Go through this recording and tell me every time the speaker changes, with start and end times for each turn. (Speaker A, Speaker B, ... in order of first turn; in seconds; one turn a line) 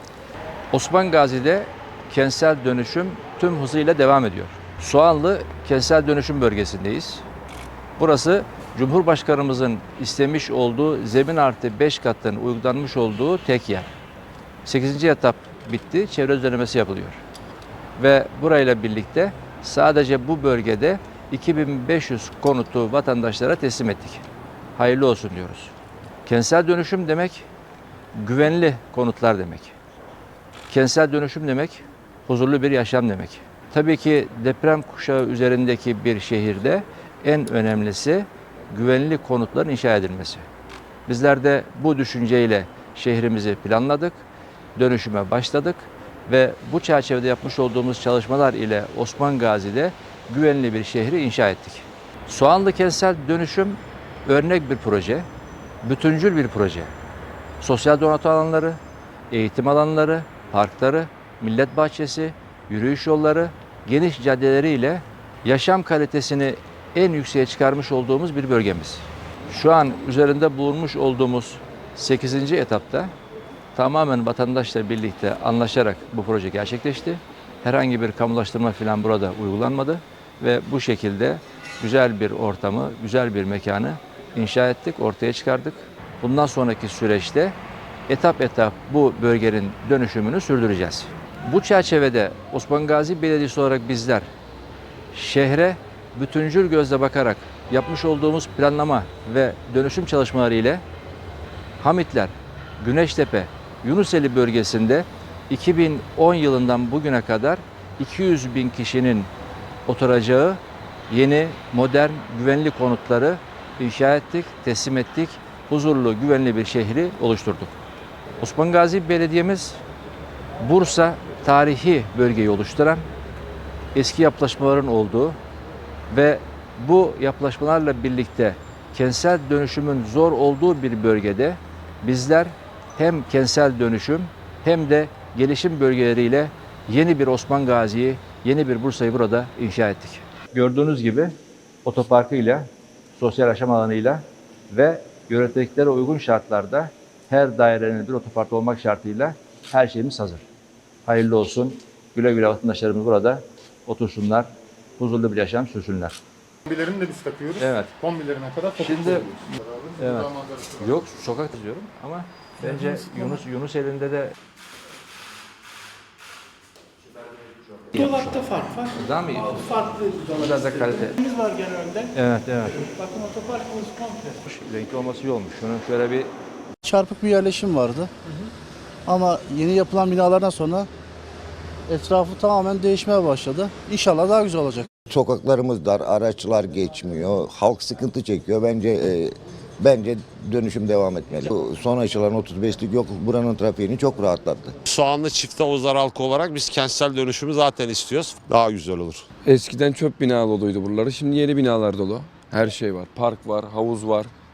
Speaker A: 0.7-7.2
Speaker A: 8.0-13.9
Speaker A: 14.7-17.2
Speaker A: 18.0-24.2
Speaker A: 24.8-25.7
Speaker A: 26.3-27.5
Speaker A: 28.1-29.8
Speaker A: 30.7-40.5
Speaker A: 41.1-44.2
Speaker A: 44.8-55.3
Speaker A: 55.8-56.9
Speaker A: 57.6-73.1
Speaker A: 73.8-87.6
Speaker A: 88.1-94.3
Speaker A: 95.1-100.8
Speaker A: 101.8-109.3
Speaker A: 109.9-117.8
Speaker A: 118.4-119.8
Speaker A: 120.6-123.1
Speaker A: 123.9-125.4
Speaker A: 126.1-141.3
Speaker A: 141.8-150.4
Speaker A: 151.1-156.2
Speaker B: 156.7-160.7
Speaker A: 157.6-157.9
Speaker A: 158.8-159.4
Speaker A: 160.0-164.3
Speaker A: 167.9-171.3
Speaker C: 168.3-168.7
Speaker C: 171.3-172.1
Speaker A: 172.1-172.9
Speaker C: 173.0-174.1
Speaker A: 174.2-176.3
Speaker D: 177.0-178.1
Speaker D: 179.1-180.9
Speaker D: 181.9-184.9
Speaker E: 185.1-194.7
Speaker F: 194.9-199.2
Speaker G: 199.4-204.3